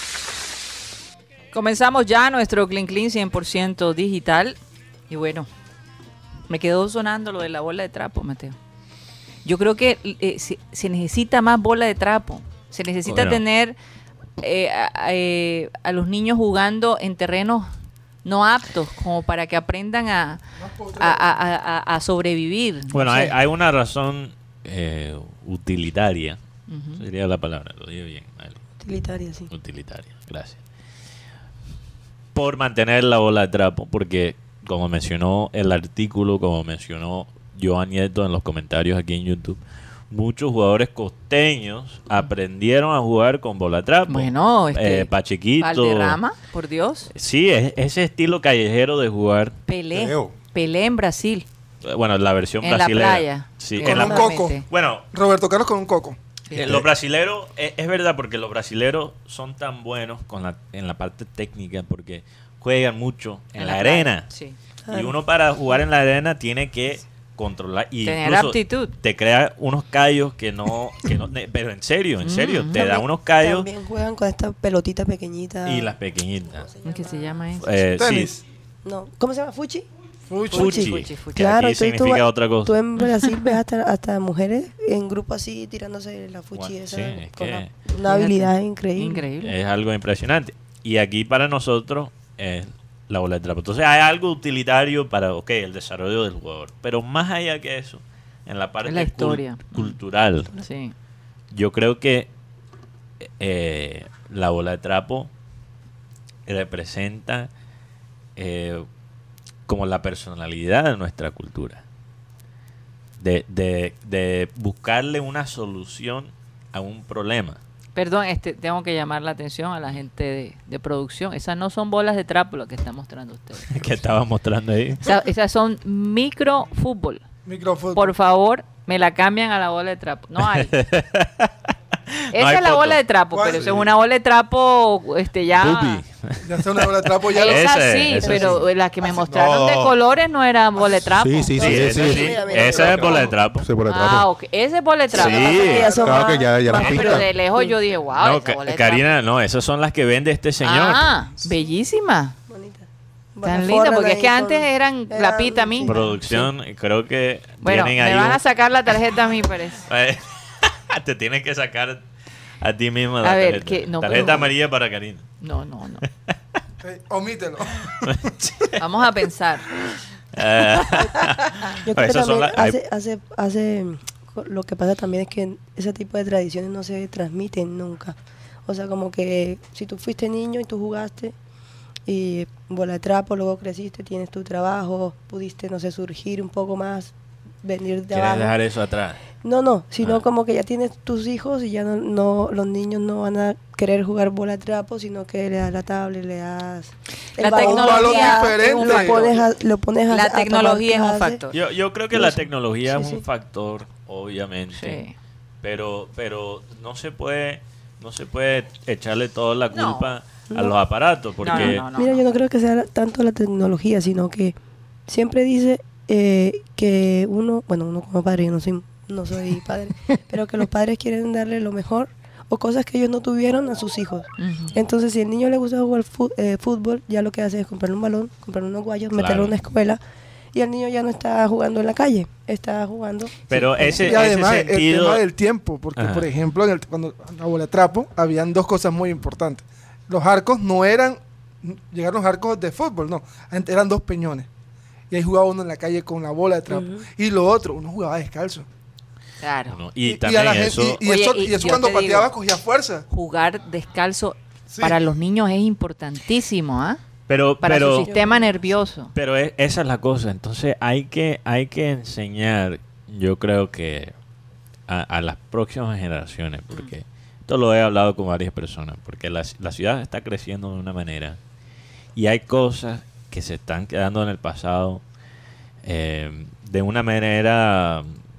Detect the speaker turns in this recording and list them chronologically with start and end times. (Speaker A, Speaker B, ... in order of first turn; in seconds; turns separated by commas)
Speaker A: 1.5-4.6, Speaker A: 5.1-5.5, Speaker A: 6.5-8.6, Speaker A: 9.4-13.8, Speaker B: 13.1-13.4, Speaker A: 14.4-17.7, Speaker A: 18.2-20.4, Speaker C: 20.6-21.2, Speaker A: 21.0-23.3, Speaker B: 22.9-26.4, Speaker A: 26.7-27.0, Speaker B: 27.0-28.6, Speaker D: 28.8-29.5, Speaker B: 29.5-30.6, Speaker B: 32.3-46.2, Speaker A: 44.1-47.1, Speaker B: 47.1-49.6, Speaker A: 49.7-51.5, Speaker E: 49.9-50.3, Speaker B: 51.8-55.0, Speaker A: 52.6-54.6, Speaker C: 53.8-54.6, Speaker C: 55.1-56.2, Speaker B: 56.5-64.3, Speaker E: 56.6-56.9, Speaker A: 63.6-64.6, Speaker D: 64.8-65.2, Speaker B: 64.9-73.7, Speaker A: 68.0-68.9, Speaker A: 72.2-72.9, Speaker D: 72.8-75.9, Speaker B: 75.6-76.7, Speaker D: 76.6-77.4, Speaker A: 76.8-77.7, Speaker B: 77.6-78.3, Speaker C: 78.0-78.4, Speaker D: 78.8-79.8, Speaker C: 80.3-80.7, Speaker D: 80.5-89.2, Speaker B: 80.5-82.7, Speaker A: 80.5-81.4, Speaker A: 83.0-83.5, Speaker B: 86.5-87.7, Speaker A: 88.0-89.5, Speaker B: 89.4-100.5, Speaker A: 98.8-100.0, Speaker A: 100.5-100.9, Speaker B: 101.5-102.3, Speaker B: 103.4-105.3, Speaker B: 106.5-107.5, Speaker B: 108.3-108.8, Speaker B: 109.7-111.8, Speaker B: 113.2-117.6, Speaker A: 118.0-124.0, Speaker B: 123.7-125.0, Speaker A: 125.0-127.2, Speaker C: 127.4-128.1, Speaker A: 127.9-130.7, Speaker B: 130.4-131.5, Speaker B: 132.1-133.0, Speaker A: 132.3-136.0, Speaker C: 133.3-133.9, Speaker B: 135.5-136.9, Speaker C: 136.4-138.4, Speaker A: 137.3-142.1, Speaker B: 137.4-138.6, Speaker E: 139.3-139.9, Speaker E: 141.2-144.3, Speaker B: 141.6-143.7, Speaker D: 141.6-143.3, Speaker A: 143.9-149.1, Speaker D: 145.1-147.8, Speaker B: 145.1-145.9, Speaker E: 145.9-147.3, Speaker B: 148.1-151.1, Speaker A: 150.6-152.3, Speaker D: 152.5-155.9, Speaker A: 153.4-156.5, Speaker B: 155.8-158.4, Speaker A: 157.6-159.8, Speaker B: 159.8-162.0, Speaker B: 162.6-165.2, Speaker A: 163.2-164.5, Speaker A: 165.4-166.0, Speaker C: 166.8-168.3, Speaker B: 168.0-168.8, Speaker A: 168.8-169.7, Speaker B: 170.3-172.8, Speaker D: 171.8-181.3, Speaker D: 182.1-188.6, Speaker B: 188.1-189.2, Speaker D: 189.4-201.4, Speaker A: 197.4-199.4, Speaker C: 197.5-199.3, Speaker A: 200.1-201.6, Speaker B: 201.5-205.0, Speaker D: 202.9-203.2, Speaker A: 204.7-205.1, Speaker B: 205.6-211.8, Speaker A: 209.7-210.1, Speaker D: 210.5-210.8, Speaker A: 211.4-212.2, Speaker D: 211.4-214.6, Speaker D: 215.1-230.0, Speaker A: 224.4-224.7, Speaker B: 229.1-229.5, Speaker D: 230.5-234.2, Speaker B: 233.5-235.2, Speaker C: 233.9-244.5, Speaker B: 236.0-236.3, Speaker C: 245.1-248.7, Speaker D: 246.7-247.0, Speaker A: 249.4-249.8, Speaker B: 249.7-251.0, Speaker C: 250.0-253.0, Speaker A: 251.0-252.3, Speaker A: 253.1-257.0, Speaker C: 254.7-255.0, Speaker B: 257.3-258.1, Speaker A: 257.6-259.1, Speaker D: 258.1-258.5, Speaker B: 259.1-264.1, Speaker B: 264.9-271.4, Speaker B: 272.1-275.0, Speaker B: 275.8-278.2